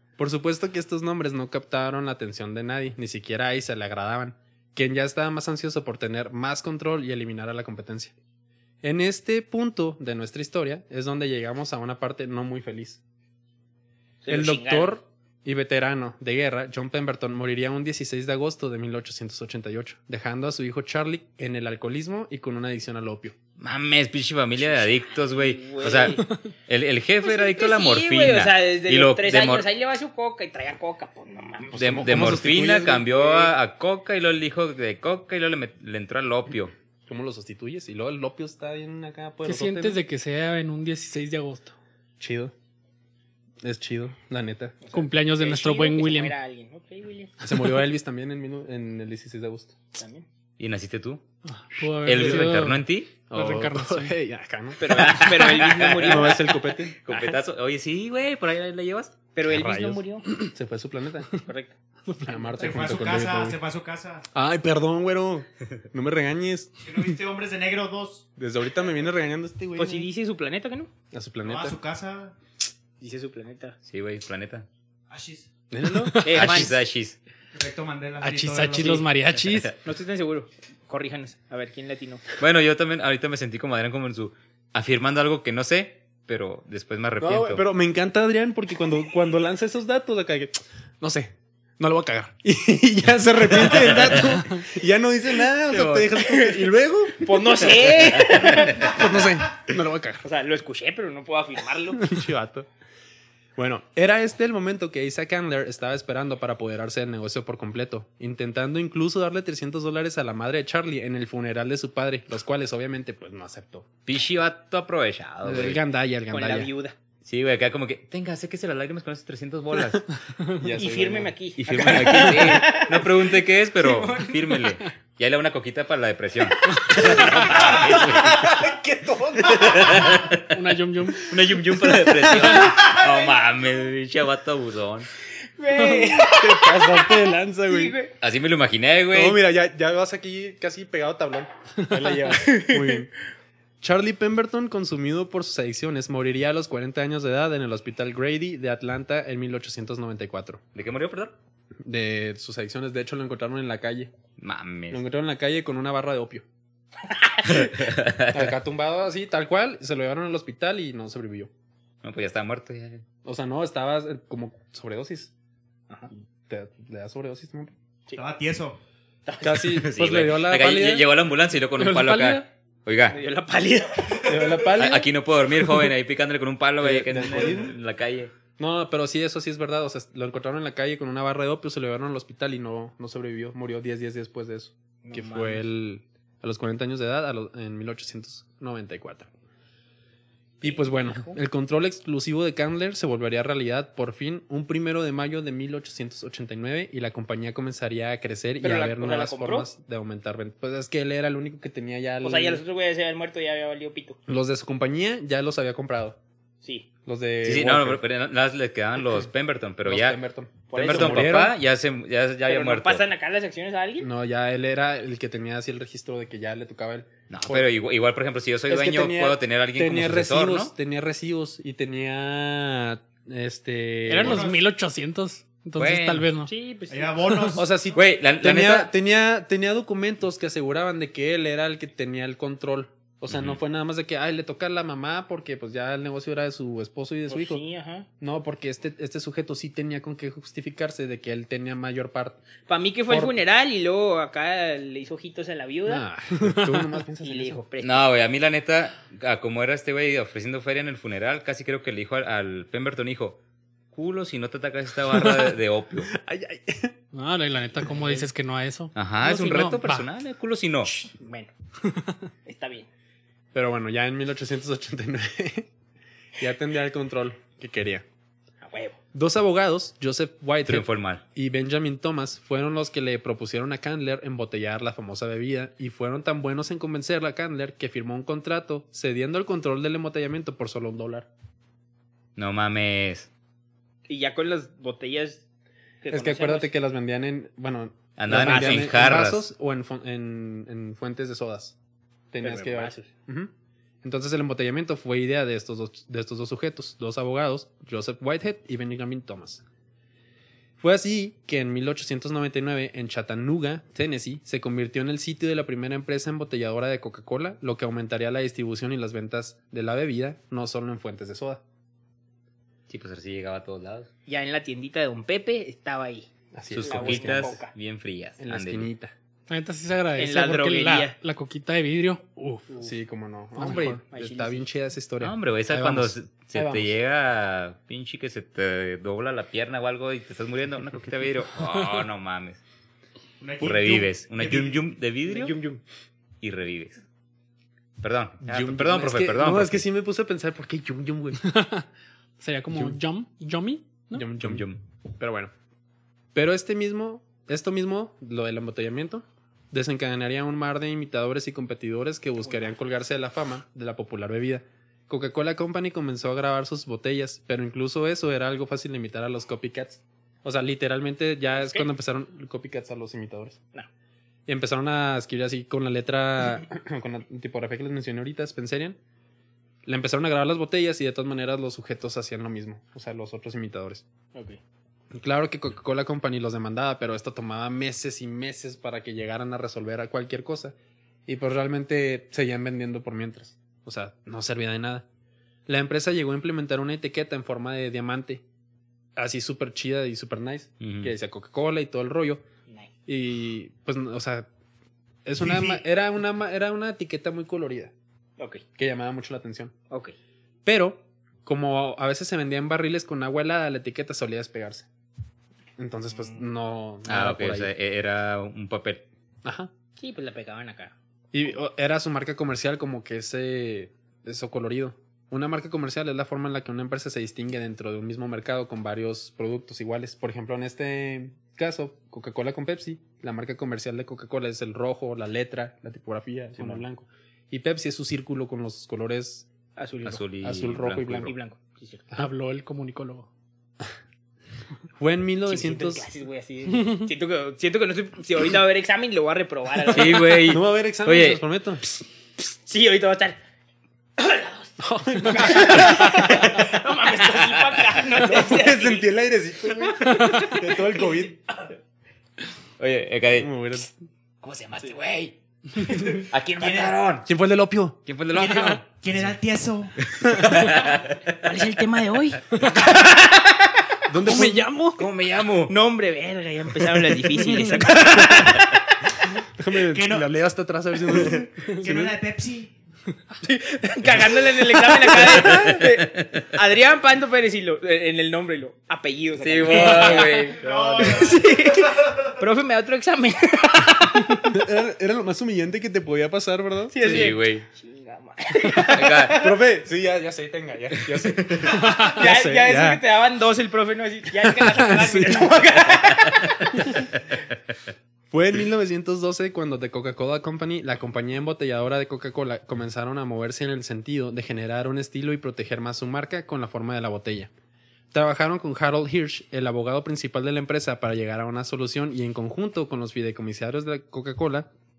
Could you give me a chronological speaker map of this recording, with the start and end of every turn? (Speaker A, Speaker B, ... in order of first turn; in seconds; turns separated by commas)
Speaker A: 0.2-8.1, Speaker A: 8.8-13.0, Speaker B: 14.2-15.0, Speaker A: 14.3-23.4, Speaker C: 23.6-29.7, Speaker B: 24.8-26.3, Speaker B: 27.2-32.0, Speaker A: 31.7-33.5, Speaker C: 31.8-36.7, Speaker A: 37.1-40.0, Speaker D: 39.4-41.8, Speaker A: 42.2-42.5, Speaker A: 43.6-44.9, Speaker B: 44.8-47.4, Speaker D: 44.9-46.4, Speaker A: 47.4-49.8, Speaker B: 50.0-50.3, Speaker C: 50.6-51.2, Speaker D: 51.5-54.1, Speaker C: 52.0-53.1, Speaker A: 53.3-57.0, Speaker B: 54.8-57.4, Speaker C: 54.9-56.4, Speaker C: 57.0-59.1, Speaker B: 59.4-60.3, Speaker A: 59.5-61.3, Speaker B: 61.4-61.8, Speaker D: 62.1-62.5, Speaker A: 62.2-63.6, Speaker E: 62.6-64.3, Speaker A: 64.3-67.2, Speaker E: 66.8-68.3, Speaker A: 68.4-70.1, Speaker B: 69.8-70.9, Speaker A: 71.1-71.8, Speaker E: 71.4-72.4, Speaker B: 73.0-73.8, Speaker C: 73.8-74.7, Speaker E: 75.1-75.5, Speaker A: 75.7-76.2, Speaker D: 75.9-76.7, Speaker B: 76.2-76.8, Speaker C: 76.3-77.2, Speaker E: 77.5-79.1, Speaker D: 78.2-79.8, Speaker B: 79.8-82.2, Speaker C: 82.4-87.7, Speaker A: 87.2-100.2, Speaker C: 93.7-94.3, Speaker C: 95.7-96.2, Speaker B: 96.3-96.7, Speaker B: 97.2-98.9, Speaker C: 98.2-98.8, Speaker B: 100.2-102.1, Speaker A: 102.0-102.7, Speaker A: 103.6-113.9, Speaker C: 114.1-115.8, Speaker A: 115.4-116.7, Speaker B: 116.3-117.0, Speaker C: 117.2-120.1, Speaker A: 120.5-122.3, Speaker B: 120.8-124.5, Speaker C: 121.6-128.6, Speaker A: 126.9-130.3, Speaker B: 126.9-128.8, Speaker C: 129.5-130.5, Speaker D: 130.4-131.3, Speaker C: 131.2-135.1, Speaker B: 132.3-133.1, Speaker B: 135.4-138.1, Speaker A: 135.9-138.0, Speaker C: 138.2-139.4, Speaker A: 139.1-143.1, Speaker B: 142.2-143.0, Speaker A: 143.8-150.6, Speaker C: 150.8-151.3, Speaker A: 151.8-154.1, Speaker C: 154.4-155.0, Speaker A: 154.9-156.4, Speaker B: 157.1-157.7, Speaker C: 157.5-158.5, Speaker A: 158.3-161.5, Speaker C: 162.0-163.0, Speaker A: 163.2-165.3, Speaker A: 166.5-167.7, Speaker E: 168.2-168.8, Speaker B: 169.3-169.8, Speaker A: 169.4-171.1, Speaker C: 169.7-173.2, Speaker D: 171.8-172.5, Speaker B: 173.1-174.6, Speaker A: 174.3-175.1, Speaker C: 174.8-178.3, Speaker A: 176.8-177.8, Speaker A: 178.6-189.3, Speaker B: 185.0-185.6, Speaker B: 190.6-191.4, Speaker A: 190.6-202.6, Speaker B: 198.6-199.7, Speaker B: 202.2-204.2, Speaker A: 204.3-206.2, Speaker A: 207.1-208.0, Speaker C: 207.4-210.2, Speaker A: 209.8-211.6, Speaker B: 210.7-211.4, Speaker C: 210.8-213.1, Speaker B: 212.5-214.1, Speaker A: 214.0-217.7, Speaker C: 217.3-220.7, Speaker A: 218.7-224.5, Speaker D: 224.1-226.5, Speaker E: 224.2-224.6, Speaker C: 225.8-226.3, Speaker B: 226.4-227.5, Speaker E: 226.9-228.0, Speaker A: 227.6-237.6, Speaker C: 227.9-228.9, Speaker C: 233.3-233.6, Speaker B: 237.3-238.1, Speaker A: 238.2-242.4, Speaker B: 242.7-246.1, Speaker A: 243.1-243.4, Speaker A: 245.9-247.7, Speaker B: 247.2-248.0, Speaker C: 247.8-253.4, Speaker C: 253.9-256.1, Speaker A: 255.1-256.9, Speaker D: 257.1-260.1, Speaker C: 258.9-260.9, Speaker B: 261.0-261.5, Speaker D: 261.9-262.1, Speaker B: 262.5-262.9, Speaker A: 263.5-265.7, Speaker A: 266.4-268.1, Speaker B: 268.6-269.0, Speaker A: 269.1-281.3, Speaker C: 270.7-271.2, Speaker C: 282.4-283.3, Speaker B: 284.1-285.4, Speaker B: 286.0-286.7, Speaker A: 286.1-291.8, Speaker C: 288.2-289.5, Speaker B: 288.4-288.9, Speaker A: 292.3-293.5, Speaker B: 292.4-293.1, Speaker A: 294.0-299.6, Speaker A: 300.8-311.6, Speaker C: 312.9-314.1, Speaker B: 314.3-316.3, Speaker A: 316.5-317.6, Speaker C: 316.7-318.9, Speaker B: 316.8-317.7, Speaker A: 318.4-319.1, Speaker D: 319.5-322.3, Speaker B: 320.2-321.2, Speaker A: 322.4-326.9, Speaker B: 322.7-322.9, Speaker D: 323.6-324.0, Speaker B: 324.1-324.7, Speaker C: 325.2-332.6, Speaker E: 333.4-334.1, Speaker C: 333.6-335.6, Speaker B: 335.3-335.8, Speaker C: 336.4-337.0, Speaker C: 338.0-339.8, Speaker A: 338.4-341.4, Speaker D: 341.4-341.9, Speaker D: 342.4-344.3, Speaker A: 342.7-343.0, Speaker A: 344.1-344.7, Speaker C: 344.4-344.8, Speaker A: 345.2-345.5, Speaker A: 346.3-363.6, Speaker B: 361.6-361.9, Speaker A: 364.5-369.0, Speaker A: 369.9-374.0, Speaker B: 374.3-374.6, Speaker A: 375.1-385.1, Speaker A: 385.7-388.4, Speaker A: 389.2-392.4, Speaker C: 390.8-391.1, Speaker A: 393.1-394.5, Speaker A: 395.2-397.9, Speaker E: 395.4-395.8, Speaker B: 398.4-398.6, Speaker A: 398.8-399.7, Speaker A: 400.6-404.9, Speaker A: 405.8-407.7, Speaker C: 407.1-409.1, Speaker A: 409.4-409.7, Speaker B: 410.0-410.9, Speaker A: 411.3-429.5, Speaker B: 429.8-430.2, Speaker C: 430.1-431.4, Speaker A: 430.4-431.3, Speaker B: 431.2-432.0, Speaker D: 432.1-433.3, Speaker A: 435.0-436.1, Speaker B: 435.5-440.5, Speaker C: 439.9-441.4, Speaker A: 440.4-441.8, Speaker B: 442.6-443.4, Speaker B: 444.2-449.1, Speaker A: 444.8-446.5, Speaker C: 447.4-447.8, Speaker A: 448.2-451.4, Speaker B: 450.0-451.7, Speaker C: 452.8-453.5, Speaker A: 453.4-454.0, Speaker C: 454.4-457.3, Speaker E: 456.6-456.9, Speaker A: 457.3-458.0, Speaker C: 458.1-459.0, Speaker E: 458.3-460.0, Speaker C: 460.1-461.3, Speaker B: 461.4-463.6, Speaker D: 462.6-462.9, Speaker A: 464.1-465.0, Speaker D: 464.3-464.8, Speaker C: 465.0-465.7, Speaker B: 465.7-468.8, Speaker A: 467.5-468.6, Speaker A: 469.4-472.2, Speaker E: 469.8-470.3, Speaker E: 471.1-472.7, Speaker B: 473.5-484.6, Speaker A: 475.1-475.6, Speaker C: 475.3-476.2, Speaker C: 479.4-481.0, Speaker E: 480.5-482.3, Speaker A: 480.7-481.0, Speaker A: 484.5-487.3, Speaker B: 486.9-489.6, Speaker C: 487.0-487.7, Speaker C: 488.8-489.4, Speaker A: 489.3-493.0, Speaker D: 491.8-492.1, Speaker B: 492.0-496.8, Speaker A: 494.4-495.6, Speaker A: 498.3-507.5, Speaker A: 508.1-514.7